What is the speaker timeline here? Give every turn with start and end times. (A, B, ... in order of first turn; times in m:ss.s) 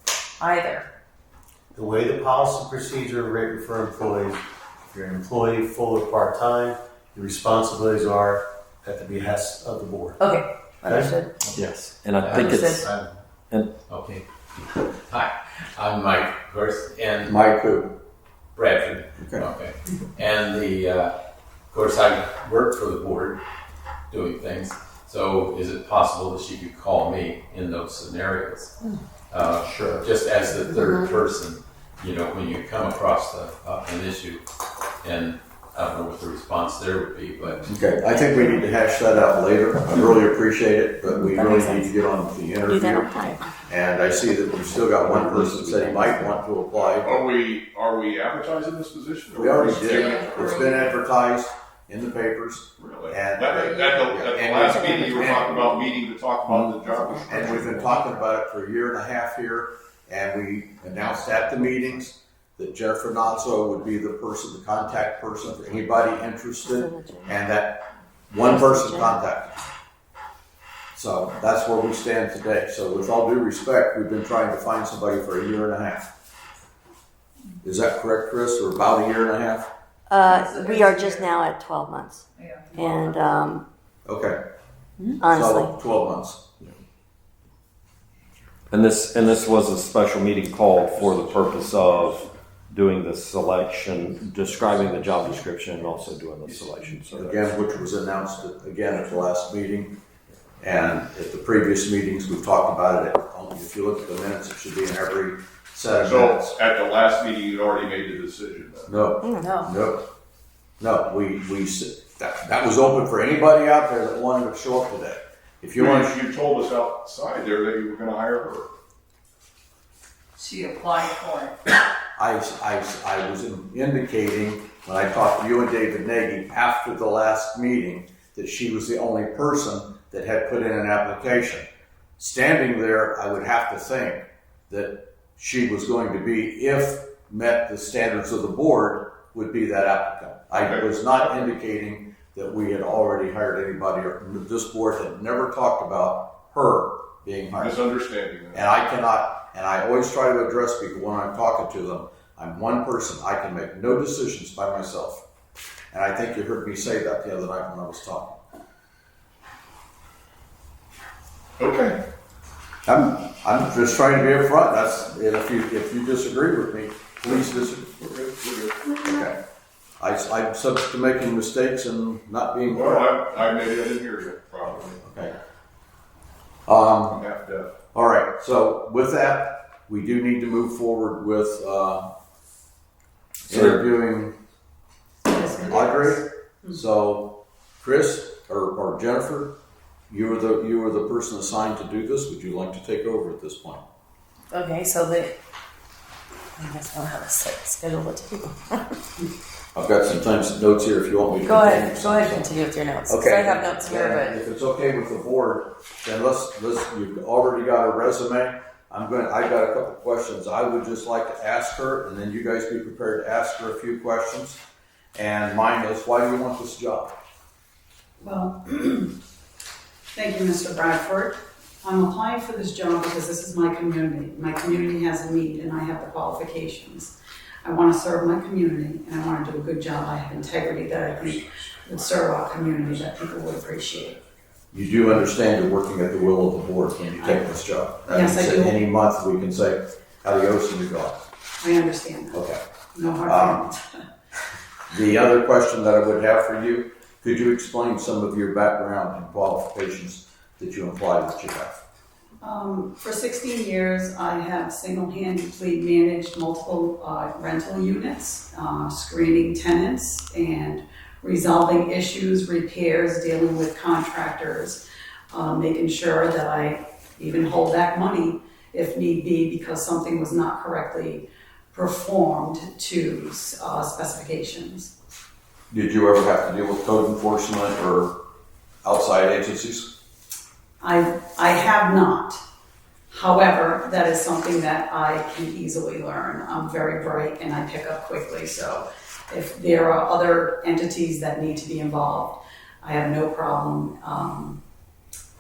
0:00.4-0:00.9 A
0:01.7-0:10.2 B
0:10.2-0:11.3 A
0:10.8-0:11.2 B
0:11.5-0:12.8 C
0:12.2-0:12.8 D
0:12.4-0:12.8 A
0:12.6-0:13.1 B
0:13.9-0:17.4 D
0:17.2-0:18.0 E
0:18.5-0:21.1 D
0:19.2-0:19.4 E
0:21.7-0:23.4 D
0:24.1-0:28.7 D
0:29.3-0:34.4 D
0:29.6-0:30.0 B
0:30.7-0:31.2 F
0:35.0-0:37.7 D
0:37.6-0:43.1 E
0:41.2-0:41.9 F
0:42.6-0:43.4 F
0:43.7-0:47.2 E
0:44.6-0:46.4 C
0:46.7-0:50.1 G
0:49.3-0:55.7 E
0:52.8-0:57.9 G
0:57.3-1:09.5 E
1:06.6-1:07.4 F
1:08.4-1:09.2 F
1:10.9-1:16.1 E
1:17.6-1:19.7 E
1:20.1-1:23.6 F
1:20.4-1:21.2 H
1:22.4-1:22.8 H
1:24.0-1:24.4 E
1:25.2-1:25.7 F
1:25.3-1:26.4 E
1:28.7-1:37.4 C
1:37.1-1:39.9 E
1:40.6-1:46.5 E
1:46.0-1:49.0 G
1:48.9-1:50.0 E
1:49.2-1:49.5 F
1:49.4-1:49.7 A
1:50.8-1:56.1 E
1:55.8-1:58.7 G
2:00.4-2:01.6 H
2:02.2-2:11.6 E
2:12.2-2:27.8 E
2:20.6-2:21.4 G
2:27.6-2:28.6 G
2:28.5-2:35.2 E
2:35.9-2:38.4 E
2:41.6-2:42.0 G
2:42.9-2:47.9 E
2:47.2-2:48.8 G
2:49.0-2:49.4 E
2:50.0-2:53.1 E
2:52.7-2:55.0 G
2:55.0-2:55.3 E
2:56.7-2:57.2 E
2:57.0-2:57.7 G
2:57.9-3:02.0 E
3:03.5-3:04.4 E
3:05.3-3:06.8 I
3:05.4-3:09.5 E
3:10.1-3:13.8 E
3:14.5-3:15.3 A
3:16.6-3:18.8 A
3:19.7-3:22.5 E
3:21.4-3:24.4 A
3:23.1-3:34.6 E
3:35.1-3:37.1 E
3:38.2-3:39.1 I
3:40.1-3:47.1 I
3:47.6-3:54.2 I
3:51.1-3:53.0 G
3:54.7-4:01.2 E
3:57.2-3:57.5 I
3:58.0-3:58.8 I
4:01.6-4:02.4 I
4:02.3-4:02.6 E
4:02.9-4:03.8 I
4:03.2-4:03.6 E
4:04.9-4:11.8 E
4:12.4-4:24.8 I
4:25.3-4:34.9 I
4:35.7-4:38.2 E
4:38.8-4:39.9 E
4:40.8-4:42.4 I
4:43.1-4:54.6 I